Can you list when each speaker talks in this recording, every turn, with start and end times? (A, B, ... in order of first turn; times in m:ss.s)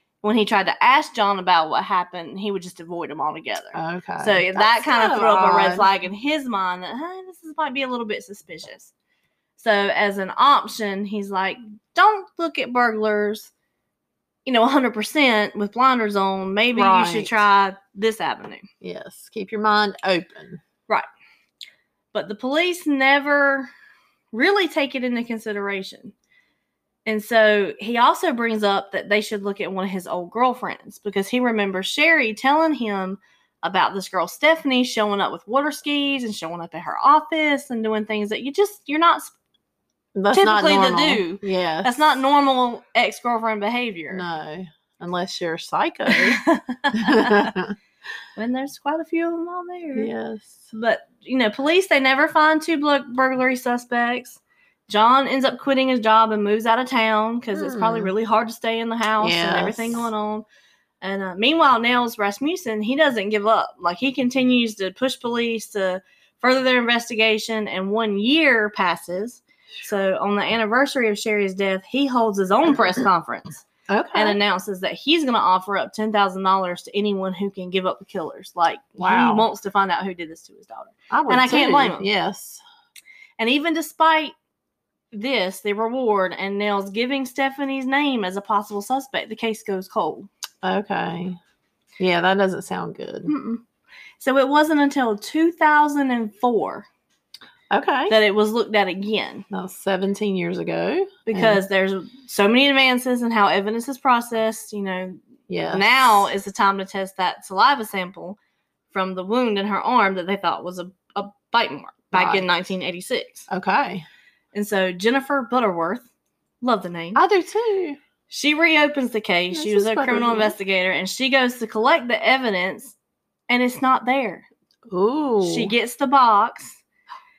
0:00.2-0:08.9 A
0:03.7-0:05.9 B
0:09.6-0:13.5 A
0:14.5-0:18.7 A
0:16.8-0:17.4 B
0:18.8-0:20.6 B
0:22.1-0:23.7 A
0:24.3-0:26.1 A
0:27.1-0:39.3 A
0:40.2-0:41.9 B
0:40.3-0:44.2 A
0:44.1-0:46.4 B
0:46.1-0:47.5 A
0:46.9-0:47.8 B
0:48.4-0:50.1 A
0:50.0-0:50.7 B
0:50.7-1:00.4 A
0:57.6-0:58.1 B
0:59.2-1:00.1 B
1:01.0-1:22.1 A
1:13.9-1:14.4 B
1:19.0-1:19.5 B
1:21.1-1:22.6 B
1:23.4-1:24.3 A
1:25.1-1:30.3 A
1:30.6-1:31.4 B
1:32.0-1:33.3 B
1:33.3-1:33.6 A
1:34.2-1:36.9 A
1:37.7-1:38.2 B
1:38.1-1:39.4 A
1:39.5-1:41.6 B
1:41.3-1:48.4 A
1:45.5-1:46.3 B
1:48.9-1:53.5 A
1:52.1-1:52.4 B
1:53.5-1:54.0 B
1:54.5-1:56.1 A
1:56.6-1:57.2 A
1:57.2-1:58.0 B
1:58.3-2:03.0 A
1:59.5-2:00.6 B
2:03.5-2:04.5 A
2:04.9-2:05.7 B
2:05.4-2:06.8 A